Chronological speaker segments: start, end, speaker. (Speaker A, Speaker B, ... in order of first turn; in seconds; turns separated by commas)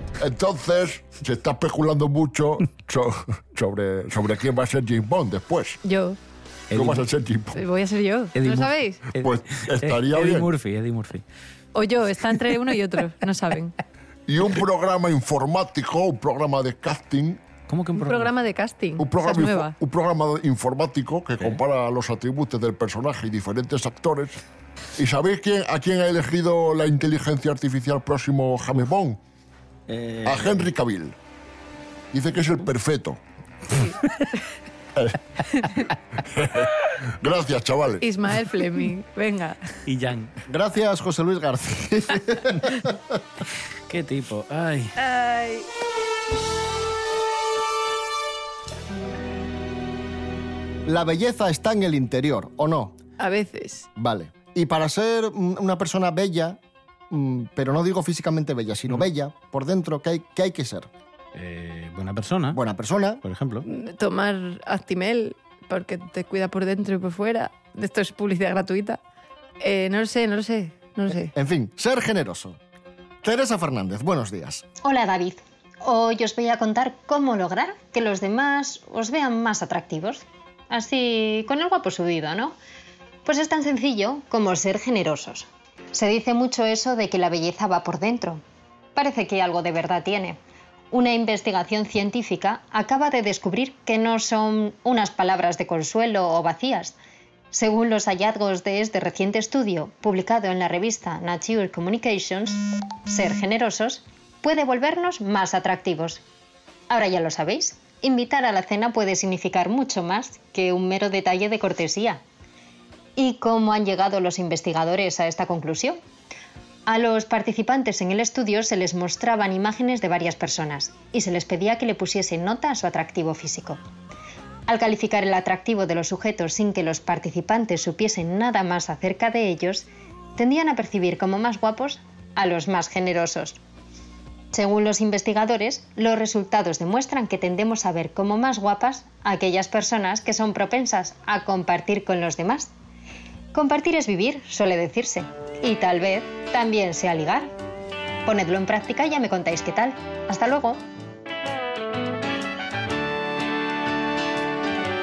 Speaker A: 0.2-5.8, Speaker B: 5.8-6.2, Speaker C: 6.7-7.0, Speaker A: 6.7-7.6, Speaker B: 7.5-9.0, Speaker C: 8.3-11.2, Speaker A: 9.2-10.5, Speaker B: 11.7-13.7, Speaker A: 14.3-17.4, Speaker C: 17.7-18.3, Speaker B: 18.0-19.7, Speaker A: 19.0-24.4, Speaker A: 25.0-29.2, Speaker C: 29.9-30.7, Speaker A: 30.2-31.1, Speaker A: 32.1-33.2, Speaker A: 36.3-38.0, Speaker B: 38.0-39.6, Speaker C: 39.9-40.3, Speaker D: 40.5-43.0, Speaker C: 43.9-44.9, Speaker B: 45.0-45.7, Speaker D: 50.9-52.9, Speaker B: 53.2-53.9, Speaker D: 54.0-56.6, Speaker D: 57.1-60.9, Speaker C: 61.3-62.6, Speaker D: 62.5-63.2, Speaker C: 63.2-63.6, Speaker B: 63.6-69.0, Speaker B: 69.6-71.3, Speaker D: 71.3-72.6, Speaker D: 73.2-74.6, Speaker E: 74.8-82.5, Speaker E: 83.2-88.4, Speaker E: 89.0-90.4, Speaker E: 90.9-96.9, Speaker E: 97.5-106.2, Speaker E: 106.9-112.2, Speaker E: 113.2-116.0, Speaker E: 116.9-123.8, Speaker E: 124.7-133.6, Speaker E: 134.5-142.7, Speaker E: 143.5-147.5, Speaker E: 148.2-150.8